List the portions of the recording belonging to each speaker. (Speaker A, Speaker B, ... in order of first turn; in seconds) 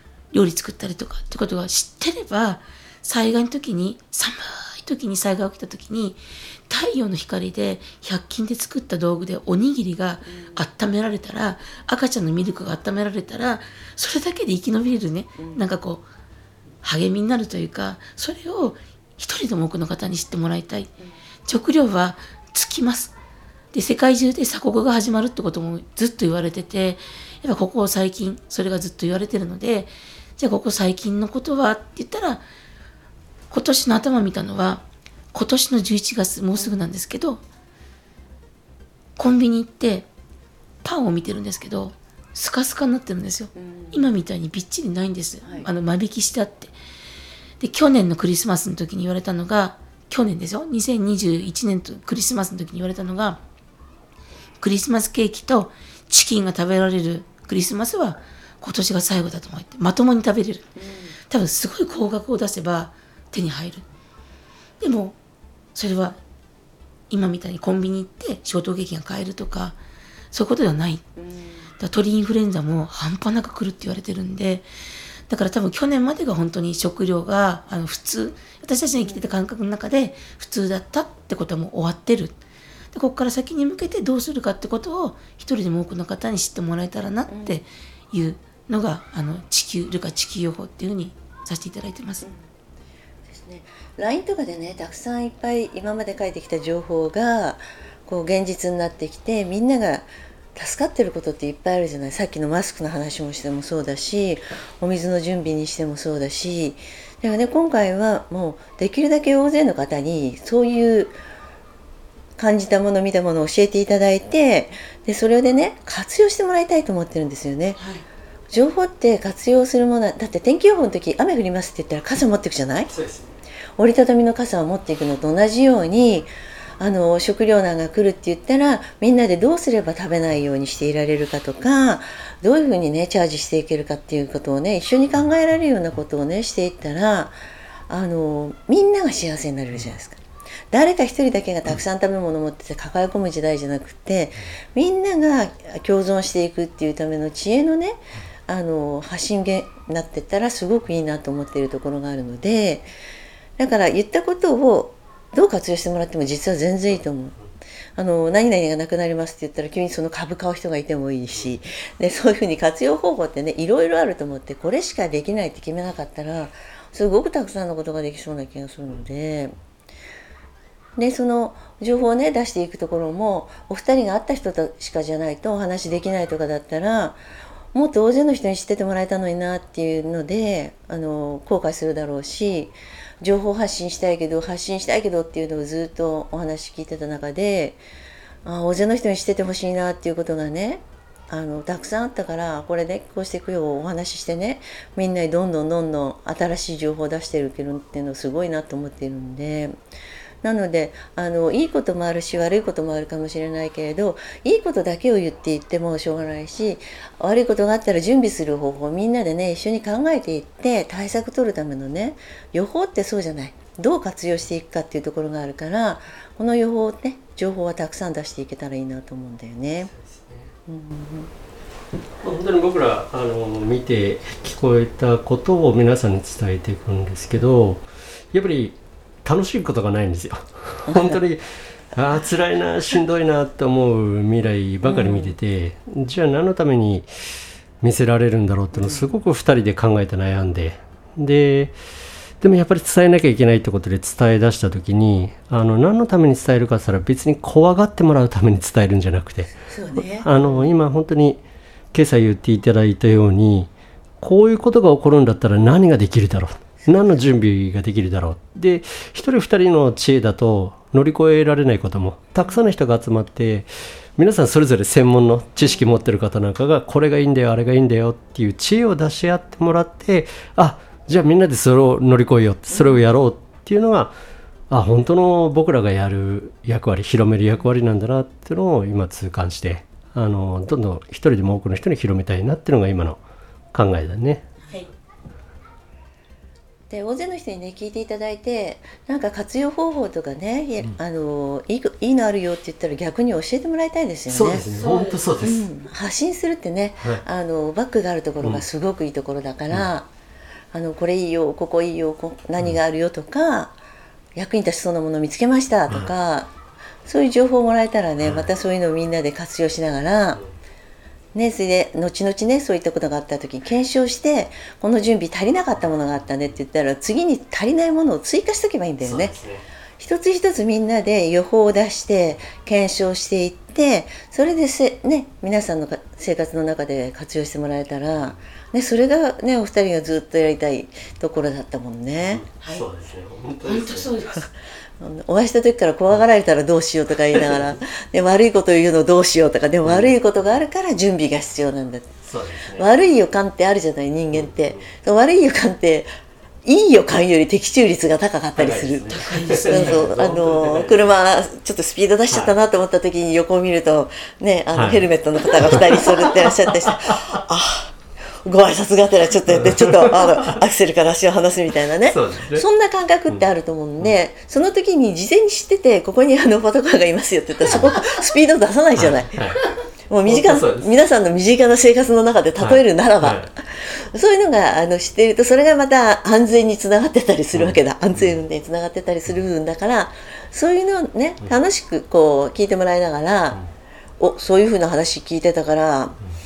Speaker A: 0.3-16.0, 16.8-20.9, 21.5-23.1, 23.7-32.4, 33.5-37.4, 39.2-40.1, 40.8-46.7, 47.6-53.4, 54.6-60.7, 61.3-63.9, 64.8-65.2, 65.8-66.2, 67.1-69.8, 70.3-71.1, 71.8-74.7, 75.3-82.4, 82.9-92.3, 294.7-295.5, 333.6-334.5, 349.1-350.1
Speaker B: 10.3-10.6, 15.4-15.6, 43.6-44.1, 60.8-61.2, 71.2-71.7, 79.0-79.3, 87.3-87.6, 93.3-111.1, 112.4-117.8, 118.5-122.9, 123.8-137.3, 137.9-140.2, 140.7-152.9, 153.6-157.4, 158.0-169.5, 171.0-177.2, 177.7-187.8, 188.4-199.8, 200.4-219.9, 220.7-221.3, 230.9-231.2, 234.8-235.3, 238.8-239.1, 249.7-250.6, 272.8-273.0, 286.9-294.6, 295.4-300.1, 300.7-303.8, 304.4-306.5, 307.1-310.4, 311.4-319.4, 320.0-332.4, 335.0-342.2, 342.7-346.1, 346.6-369.4, 370.1-383.6, 384.2-386.2
Speaker C: 122.9-123.3, 219.9-220.5, 222.2-237.1, 237.8-241.7, 242.4-251.4, 251.9-253.7, 254.2-274.1, 274.7-283.2, 283.7-284.5, 294.3-295.6, 308.2-308.5, 319.0-319.6, 332.3-334.1, 339.8-340.1, 342.3-342.9, 344.3-344.9, 348.6-351.0, 354.7-357.3, 359.6-360.6, 362.0-362.6, 367.7-368.2, 369.0-369.6, 370.3-370.9, 372.6-373.5, 377.6-378.4